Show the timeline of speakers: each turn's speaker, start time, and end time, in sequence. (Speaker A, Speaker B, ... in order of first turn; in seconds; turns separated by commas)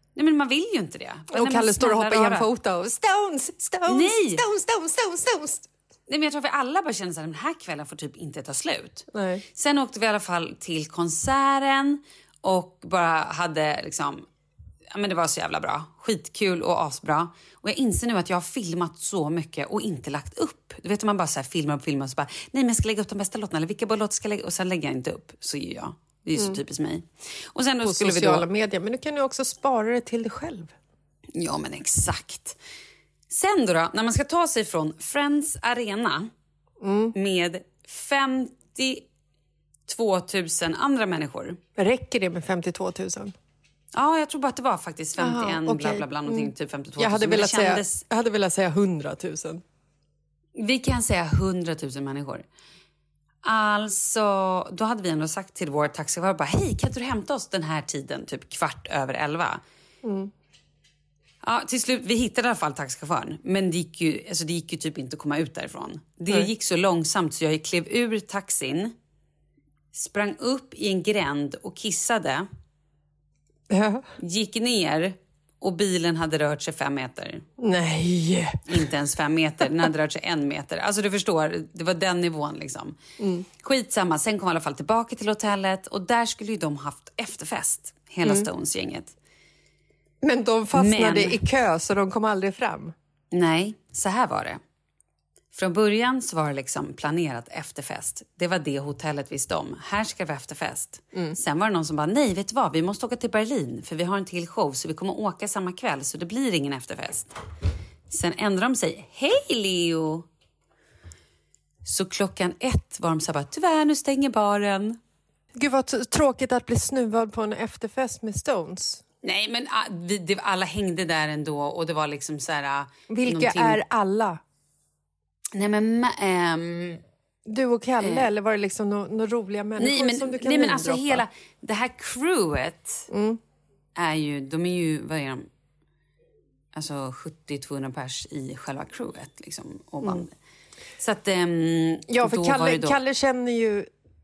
Speaker A: 0.1-2.5, Speaker B: 1.3-5.7, Speaker A: 3.9-4.4, Speaker A: 6.1-9.0, Speaker B: 9.1-9.4, Speaker A: 9.6-14.2, Speaker A: 14.9-28.4, Speaker B: 27.8-30.7, Speaker A: 31.3-32.6, Speaker A: 33.3-36.3, Speaker B: 36.8-37.1, Speaker A: 37.1-39.0, Speaker A: 39.9-41.6, Speaker B: 41.8-43.3, Speaker A: 43.9-48.0, Speaker B: 45.2-49.6, Speaker A: 50.5-52.4, Speaker A: 53.4-59.6, Speaker B: 60.0-60.3, Speaker A: 61.4-68.9, Speaker A: 69.9-72.5, Speaker B: 73.7-74.0, Speaker A: 74.2-77.4, Speaker B: 77.6-78.8, Speaker A: 78.7-83.0, Speaker B: 83.2-83.5, Speaker A: 83.6-89.1, Speaker B: 90.2-92.9, Speaker A: 90.7-91.4, Speaker A: 93.3-94.6, Speaker A: 95.5-107.4, Speaker A: 108.1-110.3, Speaker A: 111.8-115.0, Speaker B: 115.5-119.0, Speaker A: 119.2-123.8, Speaker B: 123.1-124.4, Speaker A: 125.5-127.0, Speaker B: 127.5-131.2, Speaker A: 128.0-128.3, Speaker A: 129.8-133.1, Speaker B: 133.1-133.4, Speaker A: 133.9-135.5, Speaker A: 136.7-140.3, Speaker B: 140.0-140.3, Speaker A: 141.0-143.0, Speaker B: 142.1-143.9